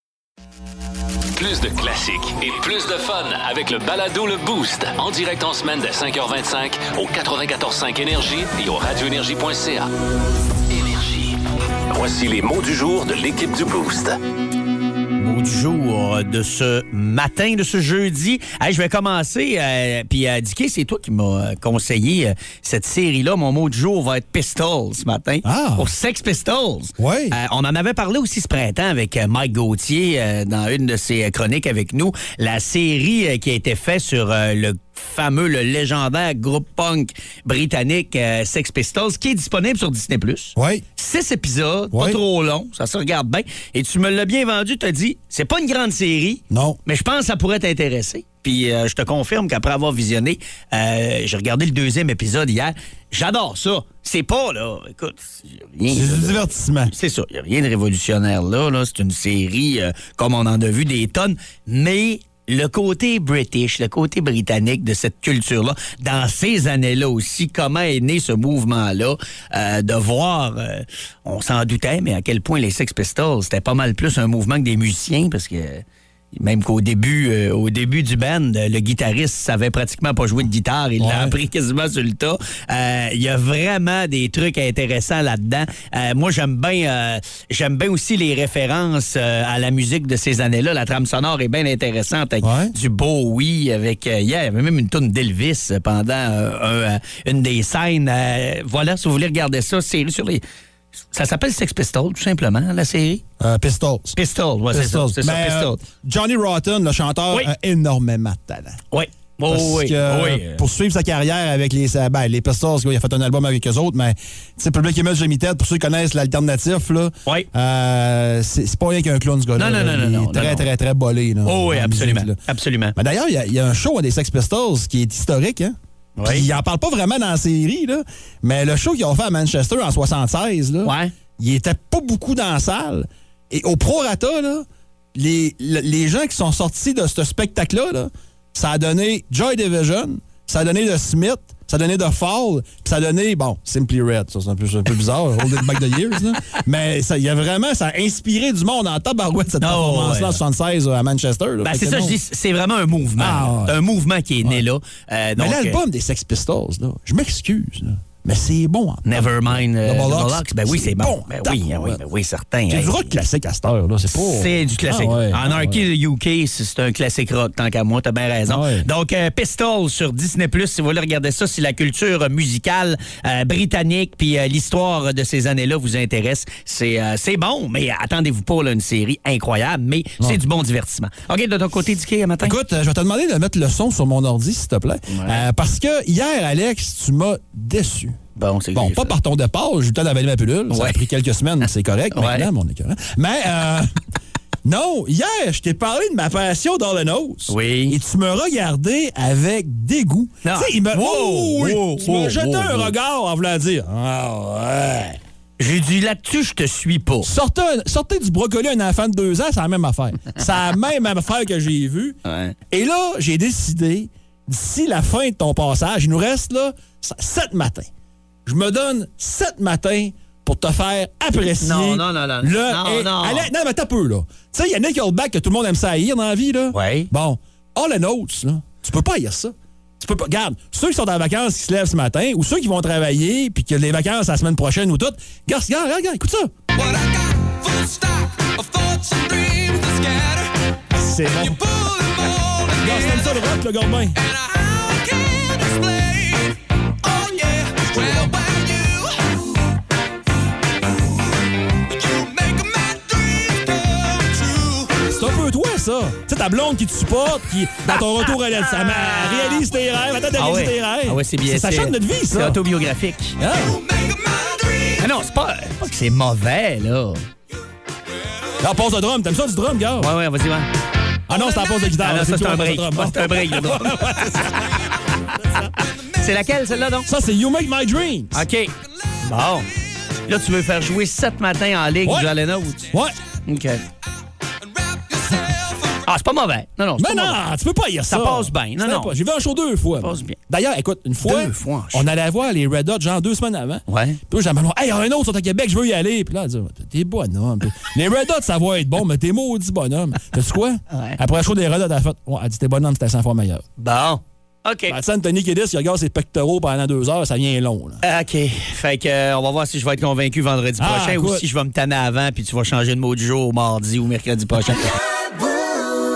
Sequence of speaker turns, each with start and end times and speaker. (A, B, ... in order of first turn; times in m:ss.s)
0:01.4-0:09.9 A
0:10.7-0:14.2 A
0:15.2-1:40.4 B
0:25.4-0:25.9 C
0:27.0-0:27.4 C
0:40.6-0:40.8 C
0:41.9-0:42.2 C
0:46.5-0:46.8 C
0:55.9-0:56.9 C
1:21.0-1:21.4 C
1:32.4-1:32.8 C
1:41.1-1:43.2 B
1:43.4-1:44.2 C
1:44.1-1:45.8 B
1:44.7-1:48.8 C
1:48.9-1:50.6 B
1:49.5-2:02.4 C
1:59.6-2:00.6 B
2:01.4-2:03.0 B
2:03.0-2:32.2 C
2:06.2-2:06.5 B
2:10.8-2:11.1 B
2:29.6-2:30.4 B
2:31.6-2:35.8 B
2:33.2-2:33.8 C
2:35.4-2:42.0 C
2:39.1-2:43.1 B
2:42.7-2:45.9 C
2:44.1-3:02.6 B
2:48.5-2:48.9 C
3:02.4-3:08.2 C
3:05.1-3:05.4 B
3:08.4-3:09.1 B
3:08.7-3:13.9 C
3:10.7-3:11.0 B
3:12.1-3:12.5 B
3:14.6-3:25.2 C
3:17.5-3:18.0 B
3:20.4-3:22.9 B
3:25.6-3:27.3 B
3:27.2-3:32.2 C
3:32.2-3:32.6 B
3:32.7-3:37.9 C
3:38.4-3:56.5 C
3:41.6-3:43.5 B
3:46.7-3:47.1 B
3:56.7-4:00.5 D
4:00.9-4:01.6 C
4:01.2-4:03.5 D
4:02.8-4:04.2 C
4:04.1-4:09.4 D
4:07.9-4:08.3 C
4:11.7-4:15.1 D
4:15.0-4:22.6 C
4:18.8-4:19.4 D
4:20.4-4:23.4 B
4:23.4-4:23.8 C
4:23.5-4:25.1 D
4:25.0-4:27.2 B
4:28.6-4:30.1 C
4:30.0-4:30.7 B
4:31.3-4:34.8 C
4:31.3-4:31.8 D
4:32.0-4:35.4 B
4:35.7-4:36.2 D
4:36.2-4:37.1 B
4:37.1-4:38.4 C
4:38.3-4:38.7 B
4:39.0-4:40.2 D
4:39.2-4:39.7 B
4:40.3-4:42.8 B
4:42.0-4:42.3 C
4:42.9-4:43.2 C
4:43.4-4:43.8 B
4:44.6-4:46.1 D
4:46.1-4:47.4 B
4:47.0-5:03.6 C
4:48.1-4:49.1 B
4:50.0-4:50.4 B
4:51.2-4:52.0 B
4:53.9-4:54.2 B
5:00.9-5:01.2 B
5:03.8-5:05.0 B
5:04.9-5:08.0 C
5:08.0-5:14.9 B
5:10.8-5:11.4 C